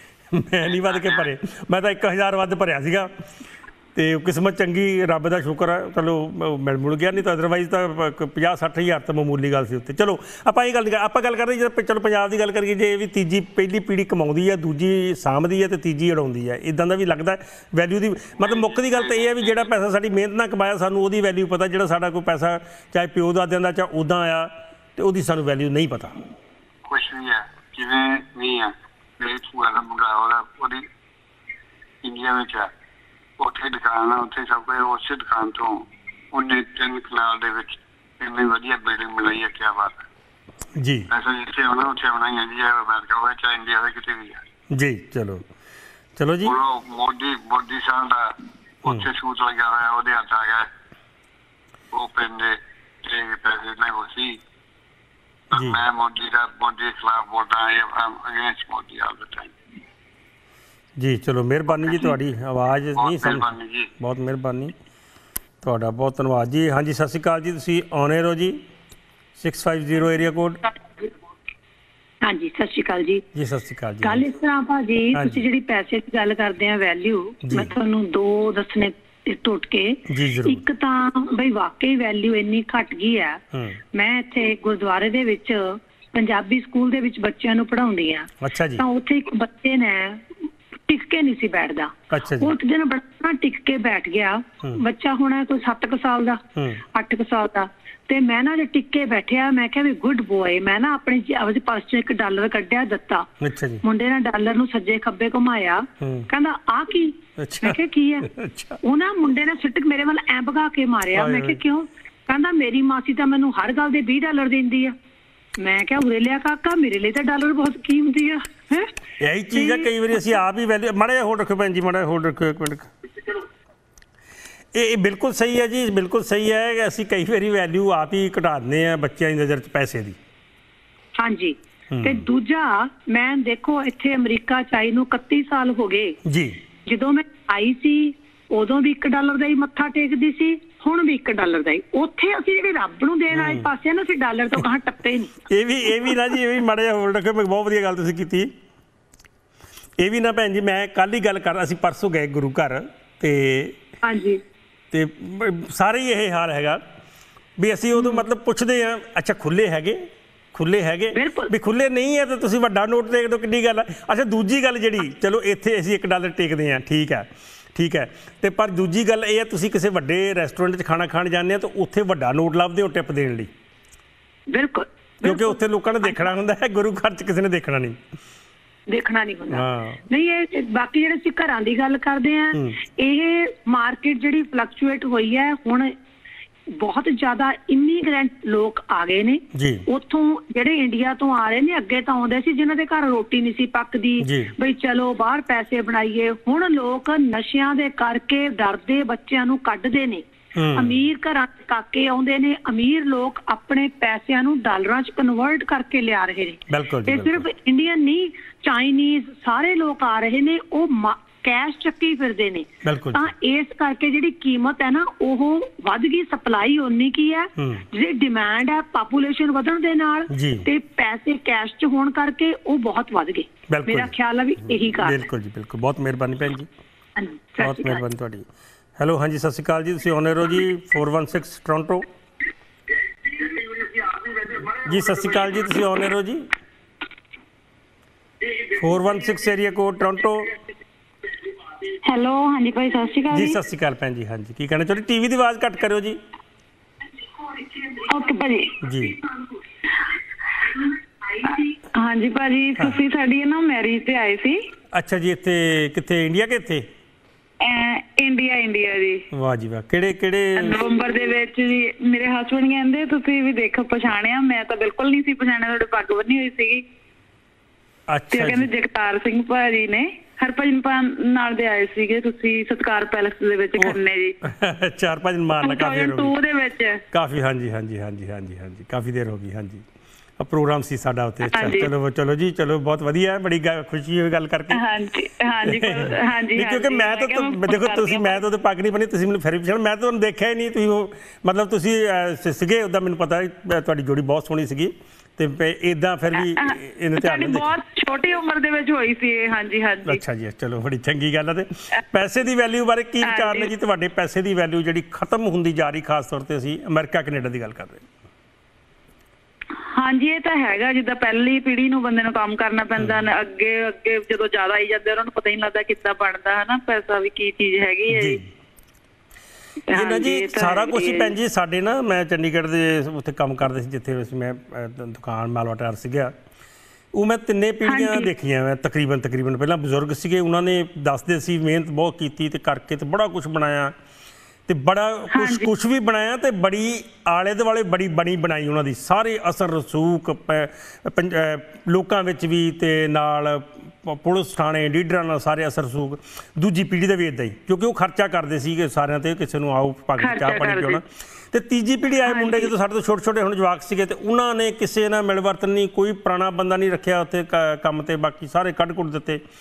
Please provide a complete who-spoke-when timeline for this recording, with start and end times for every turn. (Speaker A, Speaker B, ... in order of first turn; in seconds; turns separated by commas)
Speaker A: 0.3-3.1, Speaker B: 0.7-1.3, Speaker A: 3.9-26.1, Speaker B: 26.9-30.9, Speaker B: 32.0-32.7, Speaker B: 33.4-40.0, Speaker A: 40.8-41.1, Speaker B: 41.1-44.4, Speaker A: 44.7-45.5, Speaker A: 46.2-46.5, Speaker B: 46.4-50.7, Speaker B: 51.9-54.4, Speaker B: 55.5-59.5, Speaker A: 55.5-55.8, Speaker A: 61.0-64.7, Speaker B: 63.0-63.9, Speaker A: 65.6-68.6, Speaker A: 69.4-70.6, Speaker C: 72.2-73.2, Speaker A: 73.3-74.2, Speaker C: 74.0-83.4, Speaker A: 75.1-75.4, Speaker A: 77.4-77.7, Speaker A: 80.1-80.6, Speaker A: 83.5-83.8, Speaker C: 83.9-90.3, Speaker A: 88.4-88.8, Speaker C: 90.9-103.3, Speaker A: 92.1-92.5, Speaker A: 96.5-96.8, Speaker A: 103.4-103.8, Speaker C: 103.8-108.3, Speaker A: 106.0-106.3, Speaker A: 107.4-108.8, Speaker C: 108.8-115.0, Speaker A: 111.1-111.6, Speaker C: 115.6-118.9, Speaker A: 119.2-122.9, Speaker C: 119.5-119.8, Speaker A: 124.7-130.2, Speaker C: 131.2-136.2, Speaker A: 131.9-132.2, Speaker A: 136.2-136.6, Speaker C: 136.8-145.4, Speaker A: 143.3-143.7, Speaker A: 145.5-148.5, Speaker A: 150.0-153.8, Speaker C: 154.0-154.4, Speaker A: 154.9-156.8, Speaker A: 157.6-173.5, Speaker C: 161.1-161.5, Speaker C: 174.5-175.5, Speaker A: 175.2-178.0, Speaker C: 178.9-185.9, Speaker A: 179.5-180.0, Speaker A: 182.5-182.8, Speaker C: 186.7-225.2, Speaker A: 189.5-189.8, Speaker A: 194.2-194.5, Speaker A: 200.5-201.0, Speaker A: 206.7-207.5, Speaker A: 212.8-213.3, Speaker A: 217.6-217.8, Speaker A: 220.3-220.7, Speaker A: 223.7-226.7, Speaker C: 227.2-228.0, Speaker A: 227.6-228.4, Speaker A: 229.0-232.1, Speaker A: 234.5-236.4, Speaker A: 238.7-240.5, Speaker D: 242.0-243.6, Speaker A: 243.3-246.2, Speaker D: 247.8-248.8, Speaker A: 248.8-249.2, Speaker D: 251.4-254.6, Speaker A: 254.9-256.9, Speaker D: 257.6-259.2, Speaker A: 259.3-260.8, Speaker D: 260.6-266.8, Speaker A: 268.1-268.7, Speaker D: 268.3-274.4, Speaker A: 273.8-276.4, Speaker D: 275.6-277.0, Speaker A: 277.1-279.8, Speaker A: 280.4-284.8, Speaker D: 281.5-281.9, Speaker D: 284.7-288.4, Speaker A: 285.6-297.7, Speaker D: 296.3-300.2, Speaker A: 300.1-308.0, Speaker D: 303.2-303.7, Speaker D: 309.8-318.4, Speaker A: 312.9-313.2, Speaker A: 318.1-318.4, Speaker D: 319.9-321.3, Speaker A: 319.9-326.3, Speaker A: 327.1-333.9, Speaker D: 327.9-328.3, Speaker A: 334.7-359.4, Speaker D: 335.3-335.7, Speaker D: 350.2-351.0, Speaker D: 352.2-352.7